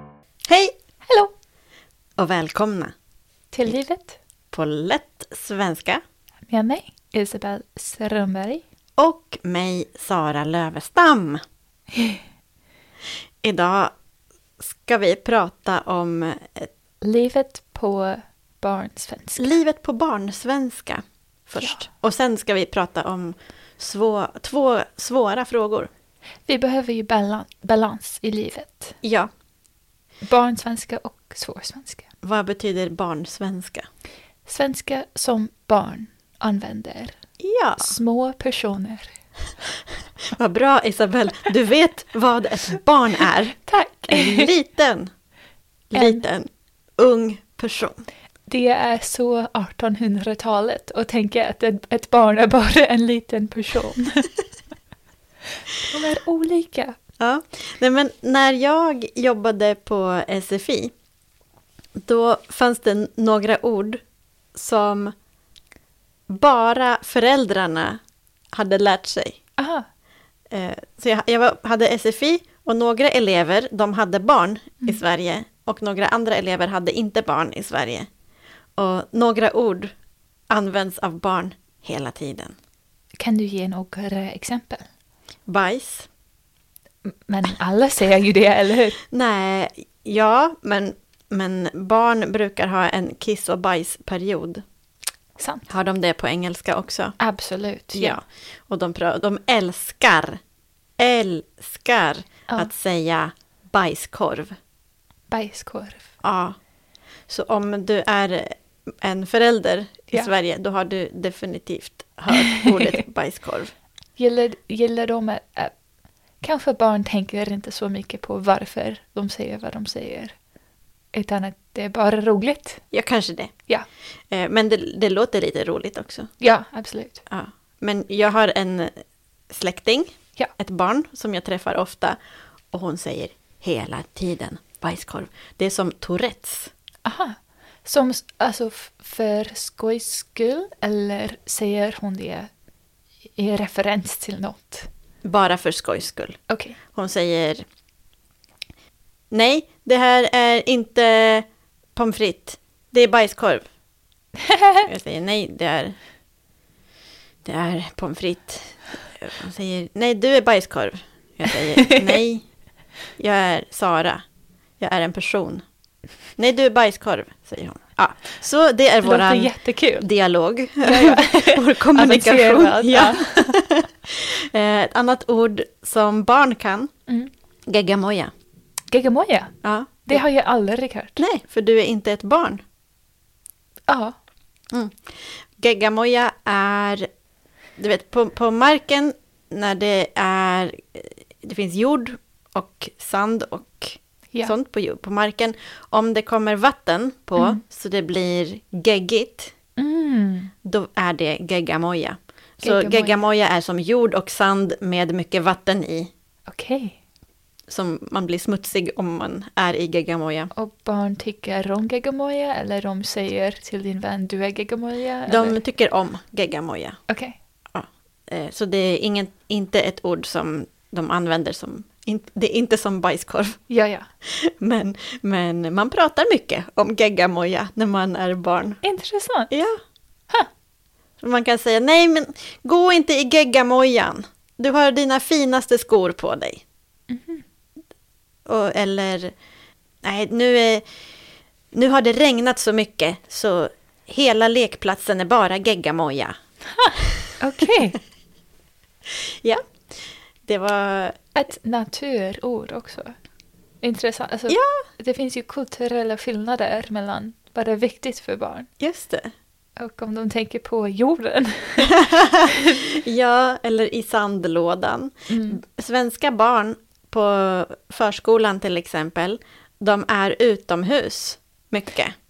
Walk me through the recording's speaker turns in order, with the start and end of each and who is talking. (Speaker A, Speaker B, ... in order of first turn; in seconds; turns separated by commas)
Speaker A: 0.5-0.7, Speaker B: 1.1-1.3, Speaker A: 2.2-2.9, Speaker B: 3.5-4.2, Speaker A: 4.5-6.0, Speaker B: 6.5-8.6, Speaker A: 9.0-11.4, Speaker B: 11.9-12.2, Speaker A: 13.4-13.9, Speaker A: 14.6-16.7, Speaker B: 17.0-19.6, Speaker A: 19.4-25.9, Speaker B: 21.6-21.8, Speaker B: 26.5-29.0, Speaker A: 29.0-29.3, Speaker B: 30.2-32.1, Speaker A: 32.2-33.9, Speaker B: 34.5-37.2, Speaker A: 37.4-38.0, Speaker B: 37.8-39.2, Speaker A: 40.3-45.1, Speaker B: 43.7-44.5, Speaker A: 45.9-48.0, Speaker B: 45.9-46.2, Speaker B: 48.5-54.3, Speaker B: 55.8-57.0, Speaker A: 57.2-60.9, Speaker A: 62.0-64.0, Speaker A: 64.5-65.1, Speaker A: 66.3-68.0, Speaker A: 68.5-69.4, Speaker B: 69.6-69.8, Speaker A: 70.5-78.1, Speaker A: 78.8-79.9, Speaker A: 80.5-82.5, Speaker B: 83.2-84.8, Speaker A: 85.5-86.1, Speaker B: 87.0-89.0, Speaker A: 89.1-94.6, Speaker B: 95.4-95.7, Speaker A: 95.7-97.2, Speaker B: 97.2-98.2, Speaker A: 97.9-100.4, Speaker A: 101.0-104.5, Speaker B: 105.3-106.1, Speaker A: 106.2-106.6, Speaker A: 107.3-113.7, Speaker B: 114.2-115.8, Speaker B: 116.4-120.4, Speaker B: 121.1-122.8, Speaker A: 122.9-123.7, Speaker A: 124.3-126.3, Speaker B: 126.4-127.2, Speaker A: 127.3-132.2, Speaker A: 132.7-136.7, Speaker B: 137.0-142.5, Speaker B: 143.3-144.9, Speaker A: 145.2-147.6, Speaker B: 146.5-146.8, Speaker A: 149.3-153.6, Speaker A: 154.8-155.9, Speaker A: 157.4-162.5, Speaker A: 163.2-164.2, Speaker A: 164.8-165.6, Speaker A: 166.4-176.9, Speaker B: 169.0-170.1, Speaker B: 170.8-173.6, Speaker A: 177.7-178.3, Speaker B: 178.9-181.2, Speaker A: 179.6-180.2, Speaker A: 181.2-182.6, Speaker B: 183.9-184.1, Speaker A: 184.7-187.1, Speaker A: 187.8-199.5, Speaker B: 199.8-200.5, Speaker A: 200.6-206.1, Speaker B: 202.6-203.2, Speaker B: 206.5-207.0, Speaker A: 207.7-210.5, Speaker B: 210.5-215.6, Speaker A: 215.3-217.0, Speaker B: 217.1-217.4, Speaker A: 217.7-223.7, Speaker B: 223.7-224.1, Speaker A: 224.2-228.8, Speaker B: 228.8-229.5, Speaker A: 229.5-229.8, Speaker A: 231.2-236.6, Speaker B: 237.1-237.4, Speaker A: 238.4-239.3, Speaker A: 240.0-240.8, Speaker A: 241.7-246.3, Speaker B: 246.8-248.0, Speaker A: 249.1-251.3, Speaker B: 251.3-253.1, Speaker B: 253.8-258.7, Speaker A: 254.5-254.8, Speaker A: 258.8-259.3, Speaker B: 259.8-262.9, Speaker A: 262.0-272.1, Speaker B: 265.3-265.6